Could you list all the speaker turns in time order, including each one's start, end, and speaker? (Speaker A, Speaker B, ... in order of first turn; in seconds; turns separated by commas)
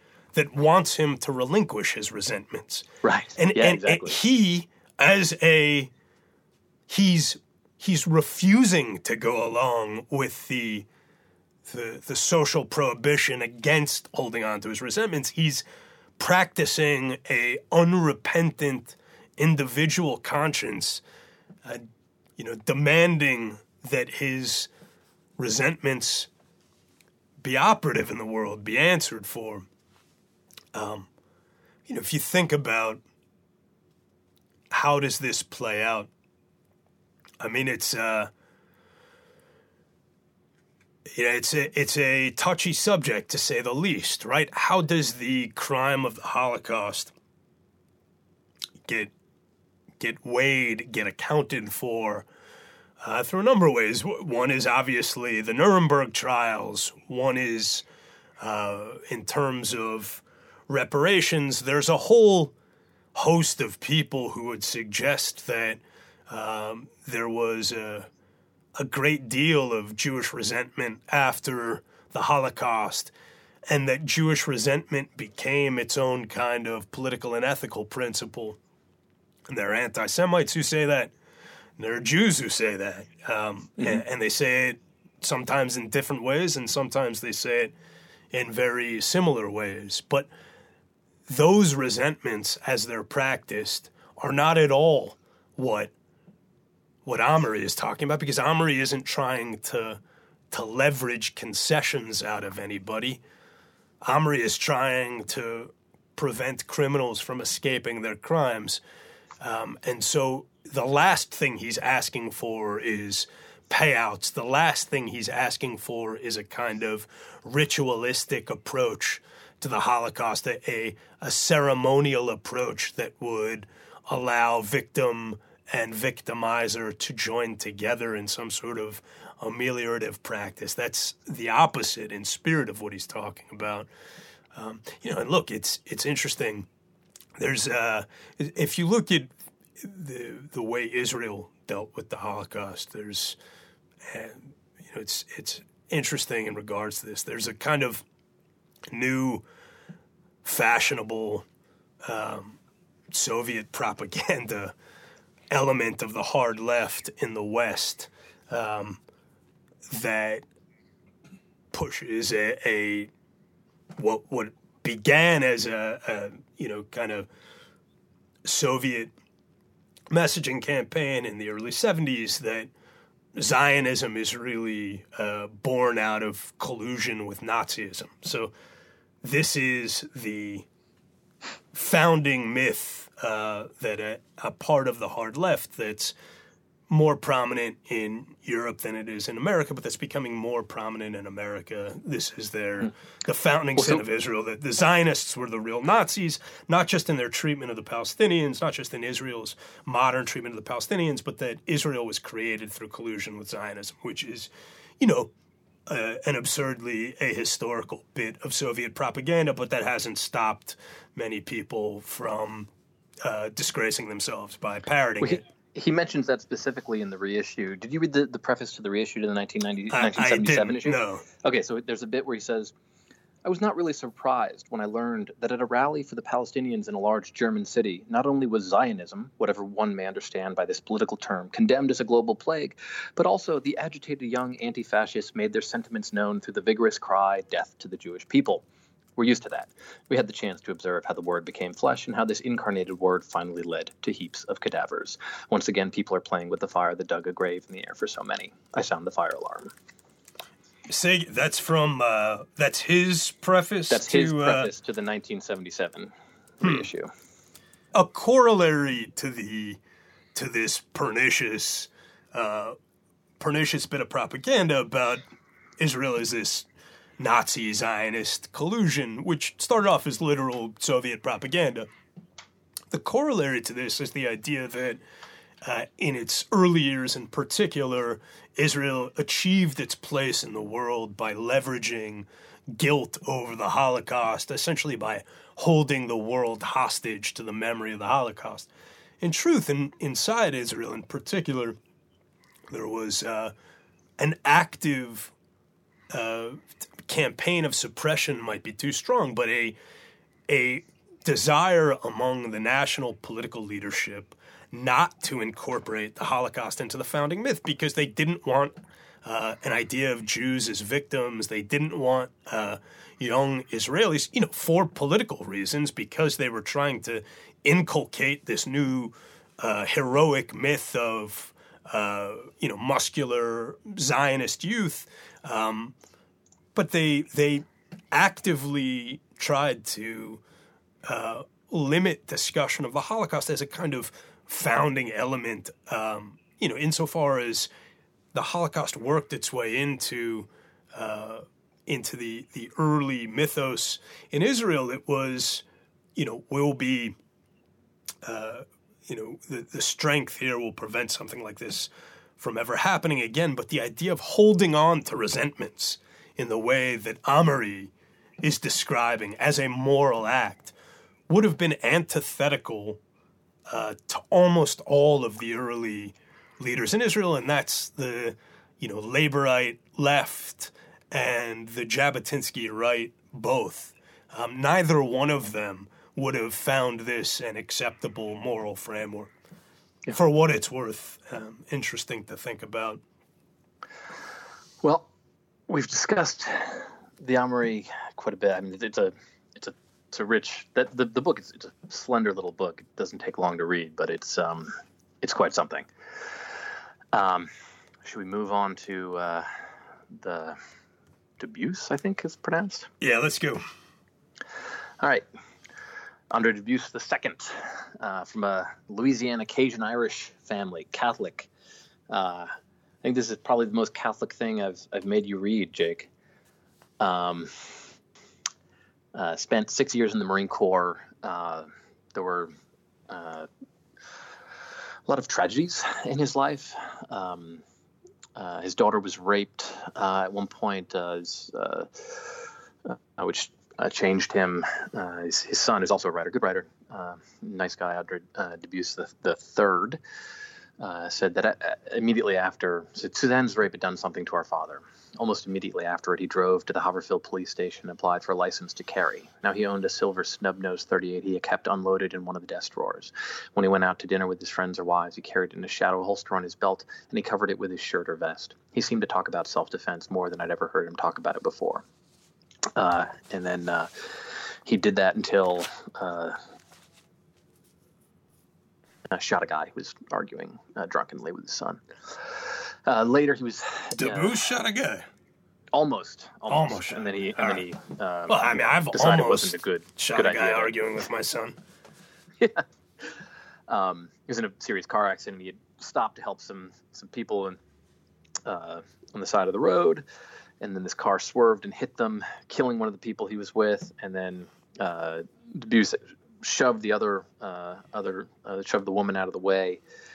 Speaker A: 0.3-5.9, Speaker B: 3.0-4.2, Speaker A: 6.9-10.9, Speaker A: 11.7-15.6, Speaker A: 16.2-21.0, Speaker A: 21.6-24.7, Speaker A: 25.4-26.3, Speaker A: 27.4-29.7, Speaker A: 30.7-31.1, Speaker A: 31.9-33.0, Speaker A: 34.7-36.1, Speaker A: 37.4-38.3, Speaker A: 41.1-47.1, Speaker A: 48.9-49.1, Speaker A: 50.0-52.3, Speaker A: 53.0-57.9, Speaker A: 58.4-62.5, Speaker A: 63.1-68.1, Speaker A: 68.8-73.1, Speaker A: 73.7-78.6, Speaker A: 79.5-81.1, Speaker A: 81.8-87.7, Speaker B: 83.8-84.0, Speaker A: 88.3-90.3, Speaker A: 91.3-95.9, Speaker A: 97.0-100.0, Speaker A: 100.5-103.2, Speaker A: 104.0-108.8, Speaker A: 109.4-133.9, Speaker A: 134.5-136.7, Speaker A: 137.4-143.4, Speaker A: 144.1-148.0, Speaker A: 148.9-149.4, Speaker A: 150.4-151.4, Speaker A: 152.0-152.6, Speaker A: 153.1-154.7, Speaker A: 155.5-159.0, Speaker A: 159.9-160.4, Speaker A: 161.7-163.1, Speaker A: 164.0-167.3, Speaker A: 168.4-169.1, Speaker A: 170.1-172.7, Speaker A: 173.3-178.5, Speaker A: 179.2-180.7, Speaker A: 181.7-186.2, Speaker A: 186.9-205.3, Speaker A: 205.9-212.7, Speaker A: 213.2-215.4, Speaker B: 215.2-222.7, Speaker A: 219.9-221.3, Speaker B: 223.4-238.6, Speaker B: 239.2-249.7, Speaker A: 250.9-254.7, Speaker B: 253.9-257.1, Speaker A: 257.9-259.8, Speaker A: 260.4-262.8, Speaker A: 263.4-265.2, Speaker A: 265.8-266.7, Speaker A: 267.2-271.9, Speaker A: 272.9-275.0, Speaker A: 275.6-288.7, Speaker A: 289.2-291.8, Speaker A: 292.7-293.5, Speaker A: 294.2-295.3, Speaker A: 296.1-299.8, Speaker A: 300.5-325.9, Speaker A: 326.8-330.4, Speaker A: 331.1-337.7, Speaker A: 338.3-345.6, Speaker A: 346.2-347.2, Speaker A: 348.2-360.7, Speaker A: 361.3-363.0, Speaker A: 363.7-379.3, Speaker A: 380.1-383.0, Speaker B: 384.8-385.1, Speaker B: 385.7-395.9, Speaker B: 397.1-397.5, Speaker B: 398.0-399.5, Speaker B: 400.1-400.6, Speaker B: 401.4-402.9, Speaker A: 403.0-403.6, Speaker B: 406.3-411.5, Speaker B: 412.1-412.5, Speaker B: 413.0-416.1, Speaker B: 417.0-417.9, Speaker B: 419.1-422.5, Speaker B: 423.1-423.5, Speaker B: 425.1-427.6, Speaker B: 428.4-440.0, Speaker B: 440.8-461.9, Speaker B: 462.8-466.4, Speaker B: 469.1-474.4, Speaker A: 474.0-475.1, Speaker B: 475.7-480.8, Speaker A: 476.5-477.6, Speaker A: 478.3-481.6, Speaker B: 482.4-483.1, Speaker B: 483.7-487.6, Speaker B: 488.4-490.0, Speaker B: 490.6-499.8